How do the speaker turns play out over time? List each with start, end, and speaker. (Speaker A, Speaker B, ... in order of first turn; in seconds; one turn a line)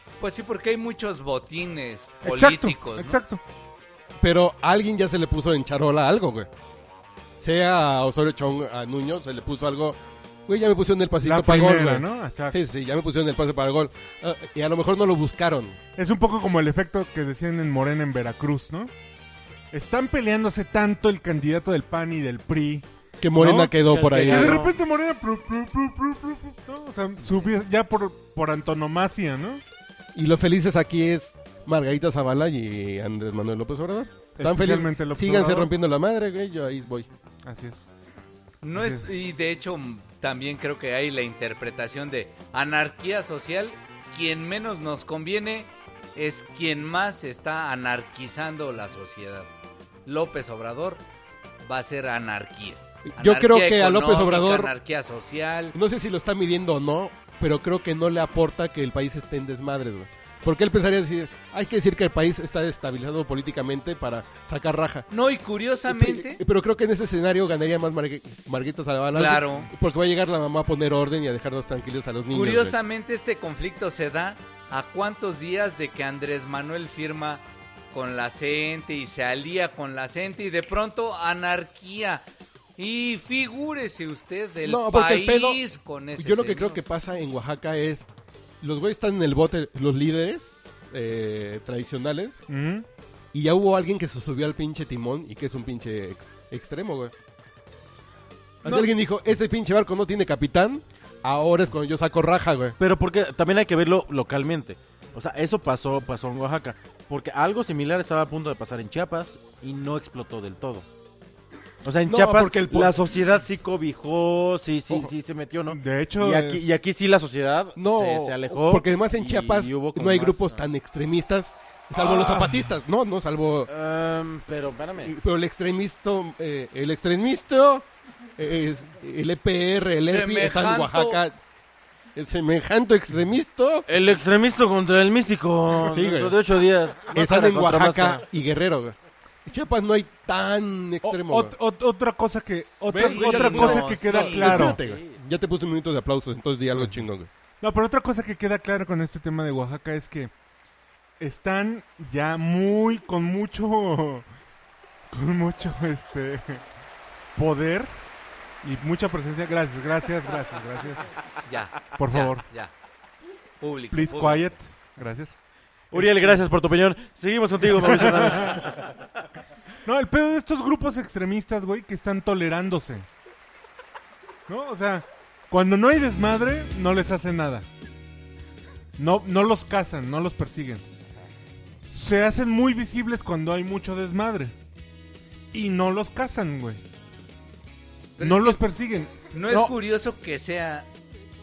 Speaker A: 0.2-3.2
Speaker B: 2.2-3.4
Speaker C: 4.2-6.5
Speaker C: 7.4-15.8
Speaker B: 11.2-12.6
Speaker B: 15.9-18.9
Speaker B: 19.7-29.6
Speaker C: 23.2-24.7
Speaker D: 23.8-24.7
Speaker C: 30.1-37.1
Speaker B: 34.4-35.7
Speaker B: 37.4-37.9
Speaker A: 38.6-49.5
Speaker B: 38.7-39.1
Speaker A: 50.0-51.0
Speaker A: 51.6-55.7
Speaker C: 53.1-54.7
Speaker C: 55.7-65.1
Speaker A: 65.1-66.4
Speaker C: 65.9-72.8
Speaker A: 69.1-69.7
Speaker A: 72.3-82.2
Speaker A: 82.8-86.8
Speaker C: 84.6-85.6
Speaker C: 86.2-88.0
Speaker C: 88.6-92.4
Speaker B: 92.5-92.8
Speaker C: 93.3-97.1
Speaker B: 98.6-98.9
Speaker C: 98.6-102.8
Speaker D: 102.8-110.8
Speaker D: 111.8-120.6
Speaker C: 112.0-113.0
Speaker B: 115.7-116.7
Speaker C: 117.8-123.7
Speaker B: 121.9-122.7
Speaker D: 123.7-125.1
Speaker C: 125.0-131.4
Speaker A: 130.0-131.2
Speaker C: 132.1-133.9
Speaker D: 133.9-138.2
Speaker C: 135.8-136.4
Speaker C: 137.1-141.5
Speaker B: 141.0-144.8
Speaker C: 142.9-147.3
Speaker A: 142.9-144.6
Speaker D: 144.4-145.2
Speaker B: 147.6-150.3
Speaker B: 151.2-154.3
Speaker B: 155.1-156.6
Speaker B: 157.3-157.9
Speaker B: 158.6-161.1
Speaker A: 161.4-162.7
Speaker B: 161.9-162.4
Speaker A: 163.6-164.5
Speaker B: 163.9-165.4
Speaker B: 165.9-166.4
Speaker D: 165.9-168.8
Speaker B: 167.7-168.7
Speaker B: 169.8-173.1
Speaker B: 174.5-177.7
Speaker B: 179.0-180.8
Speaker B: 181.9-184.5
Speaker B: 185.5-186.8
Speaker A: 188.2-188.6
Speaker B: 188.2-189.7
Speaker A: 189.3-190.9